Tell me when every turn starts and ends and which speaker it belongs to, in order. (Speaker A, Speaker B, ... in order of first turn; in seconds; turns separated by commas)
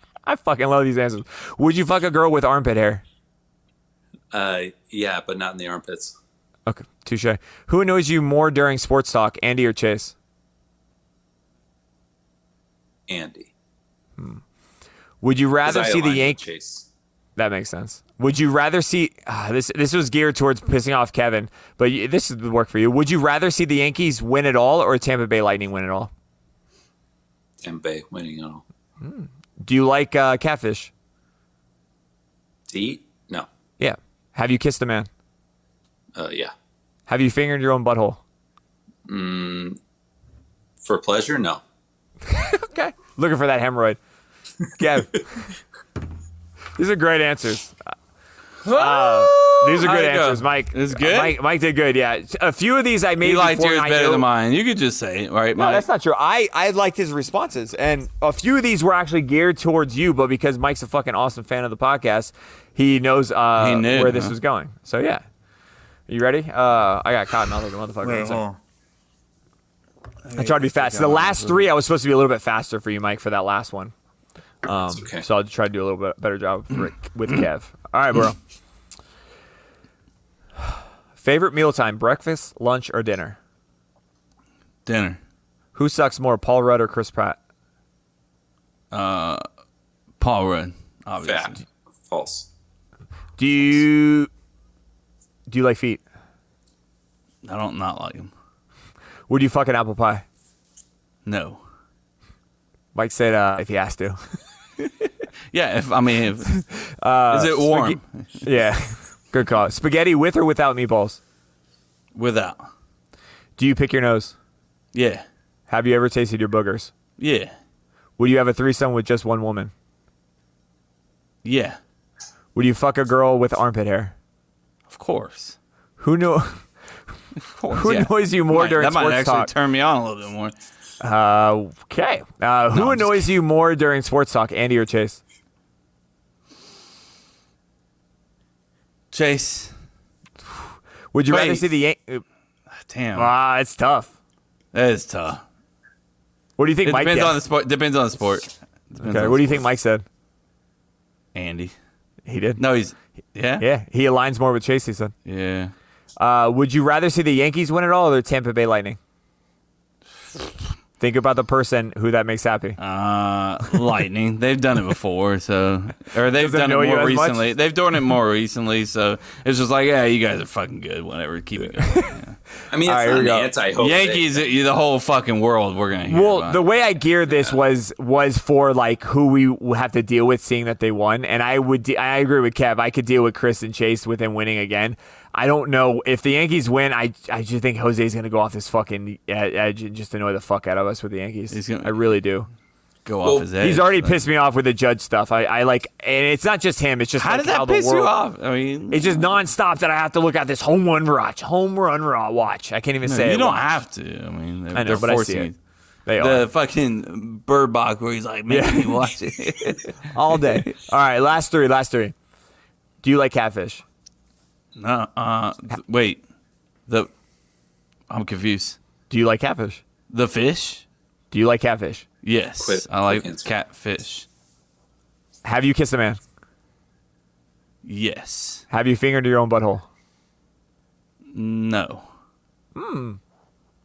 Speaker A: 0.2-3.0, Speaker B: 4.3-6.2, Speaker A: 6.7-10.1, Speaker B: 13.1-13.5, Speaker A: 15.2-16.4, Speaker B: 15.6-16.9, Speaker A: 17.4-26.1, Speaker B: 27.6-28.6, Speaker A: 29.0-30.9, Speaker B: 32.7-33.5, Speaker A: 33.8-35.1, Speaker B: 36.1-36.5, Speaker A: 37.1-38.2, Speaker B: 39.1-39.8, Speaker B: 40.8-41.6, Speaker A: 42.3-44.0, Speaker A: 44.8-45.5, Speaker A: 46.8-47.8, Speaker C: 48.6-51.4, Speaker A: 48.7-54.3, Speaker C: 53.2-55.9, Speaker A: 55.5-65.2, Speaker C: 63.6-64.3, Speaker A: 66.1-68.4, Speaker C: 68.2-68.5, Speaker C: 70.3-71.6, Speaker A: 70.3-73.9, Speaker A: 74.6-78.4, Speaker B: 74.9-75.3, Speaker A: 81.2-83.4, Speaker C: 84.9-85.2, Speaker A: 85.8-87.4, Speaker C: 88.9-89.4, Speaker C: 90.2-91.6, Speaker B: 91.2-92.5, Speaker A: 93.4-94.3, Speaker A: 95.5-96.0, Speaker C: 97.4-98.3, Speaker A: 99.3-100.2, Speaker C: 101.3-101.6, Speaker A: 103.0-104.2, Speaker C: 105.5-106.6, Speaker A: 106.5-111.2, Speaker C: 107.3-108.2, Speaker C: 112.2-112.7, Speaker A: 113.6-114.3, Speaker C: 114.9-115.2, Speaker A: 115.7-116.9, Speaker C: 117.2-117.5, Speaker A: 118.2-119.7, Speaker C: 121.4-121.8, Speaker A: 122.5-124.2, Speaker C: 124.9-125.6, Speaker A: 126.0-126.7, Speaker C: 127.4-130.5, Speaker A: 127.7-129.5, Speaker A: 131.0-135.2, Speaker C: 132.7-133.3, Speaker C: 139.1-139.7, Speaker A: 141.1-142.2, Speaker C: 141.3-141.7, Speaker C: 142.8-143.3, Speaker A: 143.2-144.1, Speaker C: 144.7-145.4, Speaker A: 146.6-147.4, Speaker C: 146.8-149.7, Speaker A: 149.0-150.1, Speaker C: 151.3-151.7, Speaker A: 152.2-152.6, Speaker C: 152.6-153.7, Speaker A: 153.6-155.1, Speaker C: 155.3-155.7, Speaker A: 156.2-159.0, Speaker A: 161.0-162.8, Speaker C: 162.8-172.4, Speaker A: 166.3-167.5, Speaker A: 171.8-172.1, Speaker B: 172.7-174.6, Speaker A: 172.8-173.5, Speaker C: 173.8-176.6, Speaker A: 176.1-192.5, Speaker C: 191.5-192.0, Speaker C: 193.1-194.2, Speaker A: 193.6-198.2, Speaker C: 197.2-199.3, Speaker A: 198.9-203.6, Speaker C: 203.0-205.6, Speaker A: 204.7-205.5, Speaker A: 206.1-206.5, Speaker C: 206.2-210.7, Speaker A: 208.5-209.2, Speaker A: 210.0-212.2, Speaker A: 213.0-213.8, Speaker C: 214.8-216.2, Speaker C: 218.1-218.8, Speaker A: 219.1-219.8, Speaker C: 220.1-220.8, Speaker A: 221.3-222.1, Speaker C: 222.2-224.3, Speaker B: 222.6-223.5, Speaker A: 225.4-226.2, Speaker C: 227.8-228.6, Speaker A: 228.7-229.8, Speaker C: 231.3-232.1, Speaker A: 232.8-233.2